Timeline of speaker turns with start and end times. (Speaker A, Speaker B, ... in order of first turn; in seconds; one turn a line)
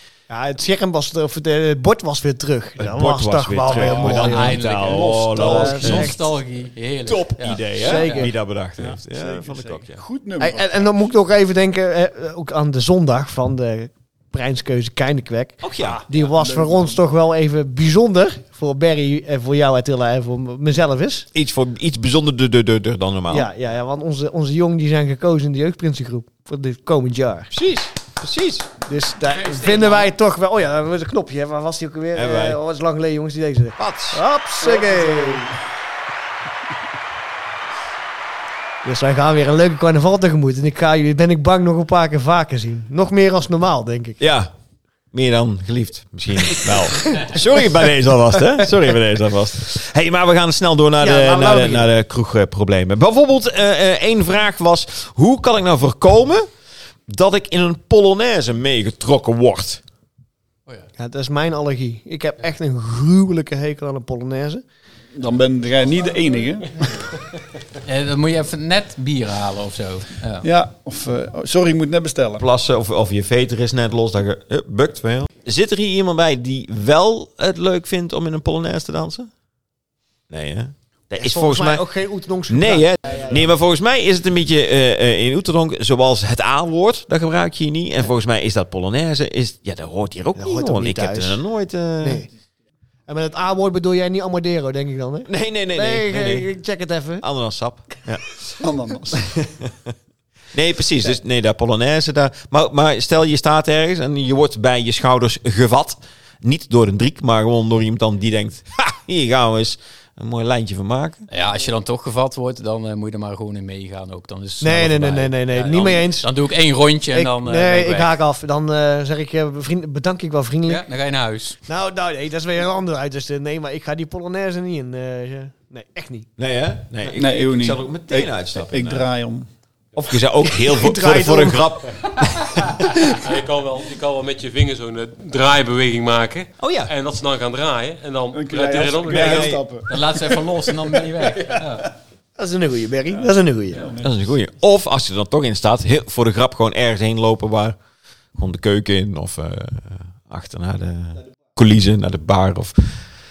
Speaker A: 0.3-4.6
Speaker B: 2.8-6.2
Speaker C: 3.7-6.2
Speaker D: 4.0-8.3
Speaker A: 5.6-6.0
Speaker B: 7.1-10.0
Speaker A: 7.8-8.3
Speaker C: 8.6-11.1
Speaker A: 10.4-21.3
Speaker B: 15.6-16.0
Speaker C: 15.8-17.0
Speaker B: 21.3-23.5
Speaker A: 23.3-27.5
Speaker B: 27.5-28.7
Speaker A: 28.9-35.4
Speaker D: 29.2-30.1
Speaker B: 32.1-32.6
Speaker B: 33.8-34.2
Speaker C: 34.6-35.6
Speaker A: 38.8-44.2
Speaker B: 44.2-44.5
Speaker B: 45.1-56.5
Speaker A: 51.0-51.9
Speaker B: 57.1-59.8
Speaker A: 61.0-64.6
Speaker C: 65.1-66.9
Speaker D: 67.8-70.5
Speaker C: 70.4-72.4
Speaker B: 72.4-79.3
Speaker B: 80.3-81.9
Speaker A: 81.2-83.3
Speaker B: 82.5-92.2
Speaker A: 90.4-91.4
Speaker A: 92.0-92.3
Speaker A: 93.1-97.2
Speaker B: 95.3-96.5
Speaker B: 97.2-98.3
Speaker C: 98.4-99.3
Speaker B: 99.1-99.9
Speaker B: 100.5-111.3
Speaker D: 111.3-118.1
Speaker A: 114.6-116.3
Speaker A: 117.1-120.8
Speaker D: 120.7-121.6
Speaker A: 121.7-126.3
Speaker B: 126.4-129.1
Speaker C: 127.1-129.5
Speaker B: 129.9-132.6
Speaker A: 130.7-131.7
Speaker E: 133.0-139.6
Speaker B: 136.6-136.9
Speaker C: 138.3-140.4
Speaker B: 139.1-139.6
Speaker D: 139.9-141.9
Speaker A: 142.4-143.8
Speaker C: 143.1-144.2
Speaker B: 144.0-147.8
Speaker B: 148.4-153.0